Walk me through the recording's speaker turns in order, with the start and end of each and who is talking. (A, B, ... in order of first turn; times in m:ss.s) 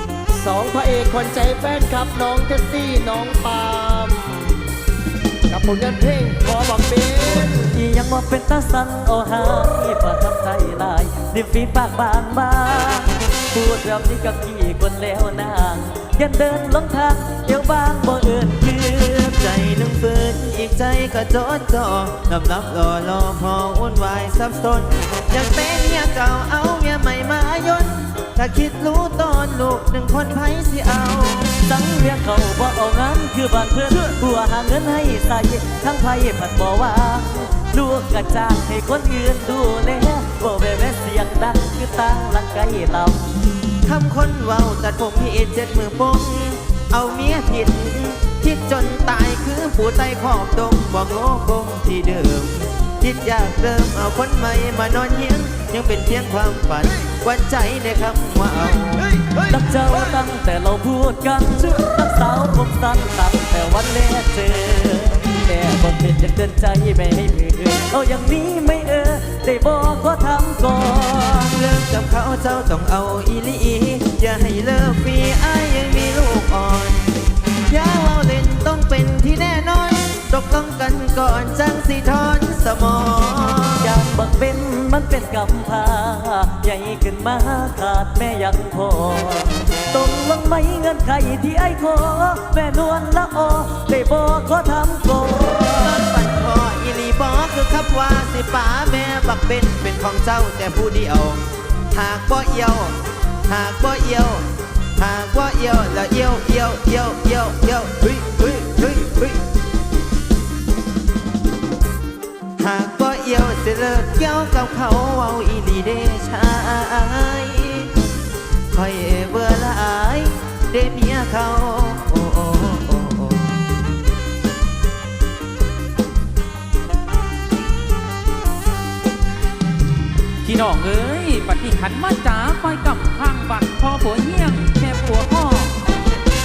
0:00.3-0:04.6 A
0:05.5-0:07.6 A
0:07.2-0:19.4 B
0:19.3-0:31.6 C
0:31.6-0:43.3 B
0:43.8-0:59.4 C
0:59.5-1:11.6 B
1:11.5-1:17.1 C
1:17.7-1:24.0 C
1:23.8-1:36.0 B
1:35.8-1:43.0 C
1:43.5-1:44.4 C
1:45.0-1:49.4 C
1:52.6-1:57.9 C
1:58.7-2:03.6 C
2:10.4-2:15.9 D